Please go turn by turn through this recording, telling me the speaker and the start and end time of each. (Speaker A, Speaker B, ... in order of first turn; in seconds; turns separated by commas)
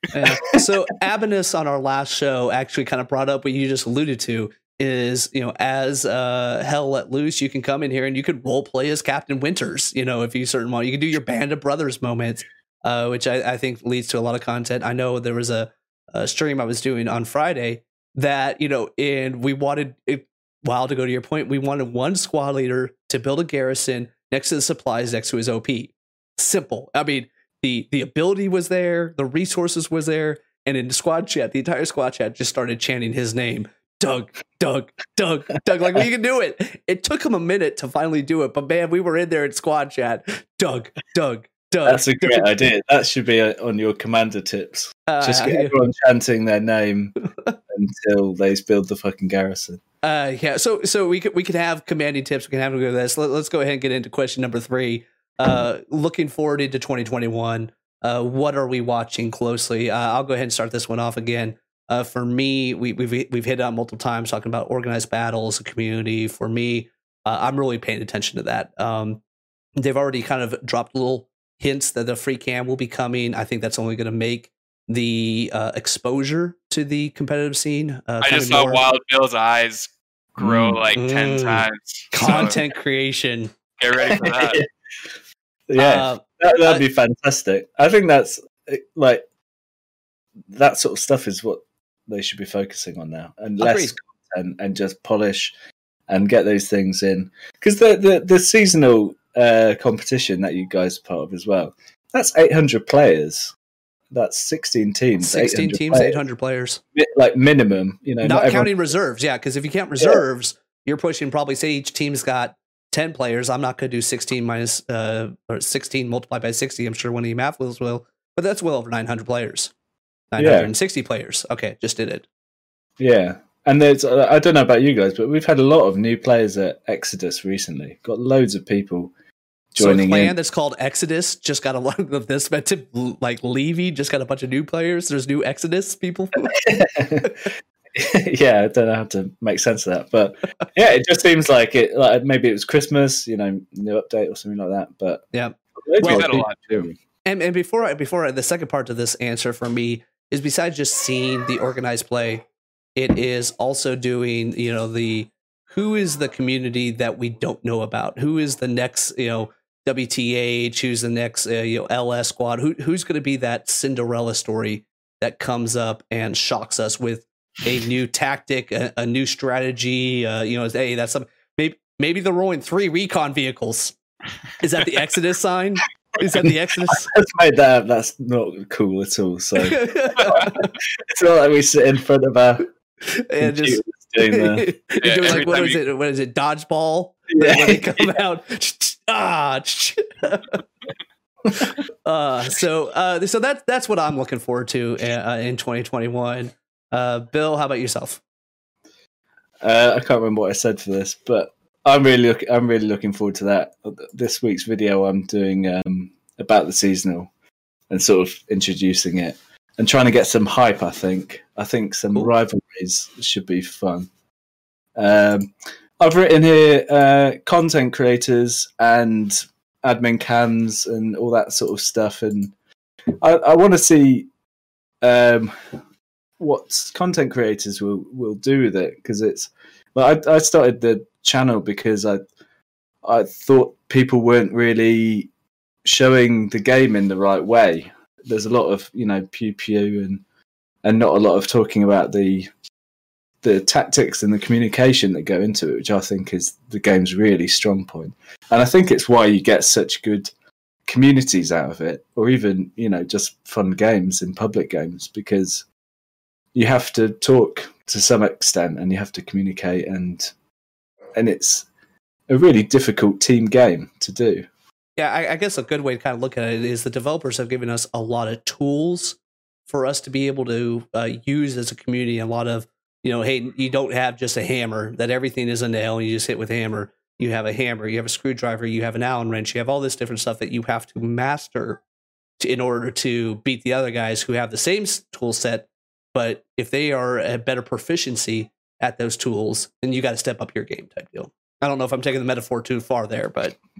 Speaker A: 0.1-42.5, Speaker B: 41.8-47.2, Speaker A: 45.1-45.7, Speaker B: 47.7-49.8, Speaker A: 50.0-69.2, Speaker A: 69.8-78.8, Speaker C: 78.2-82.6, Speaker B: 80.4-80.8, Speaker A: 81.0-83.5, Speaker C: 83.8-84.6, Speaker B: 84.0-84.7, Speaker B: 85.7-89.2, Speaker A: 85.8-86.8, Speaker B: 90.5-95.5, Speaker A: 93.6-93.9, Speaker B: 96.1-103.5, Speaker B: 104.1-106.2, Speaker A: 105.2-106.8, Speaker B: 106.9-108.7, Speaker A: 108.2-119.7, Speaker A: 120.3-122.2, Speaker B: 120.4-120.7, Speaker B: 123.0-129.1, Speaker B: 129.7-130.3, Speaker A: 129.8-136.6, Speaker B: 136.5-145.2, Speaker A: 145.3-146.4, Speaker B: 145.8-146.9, Speaker C: 146.0-146.7, Speaker A: 147.2-173.9, Speaker A: 174.6-177.1, Speaker B: 176.4-182.7, Speaker A: 179.6-180.7, Speaker C: 180.2-180.4, Speaker A: 183.0-190.6, Speaker B: 183.4-184.7, Speaker C: 185.0-185.8, Speaker B: 187.3-188.1, Speaker A: 192.0-198.2, Speaker B: 199.6-207.3, Speaker B: 207.9-214.1, Speaker B: 214.9-222.5, Speaker B: 223.2-224.3, Speaker B: 225.0-225.5, Speaker B: 226.4-232.2, Speaker B: 233.0-235.3, Speaker B: 235.8-240.2, Speaker B: 240.8-242.5, Speaker B: 243.4-250.3, Speaker B: 250.8-255.6, Speaker B: 256.5-260.3, Speaker B: 261.1-261.7, Speaker B: 262.3-264.5, Speaker A: 265.0-281.8, Speaker A: 282.4-293.6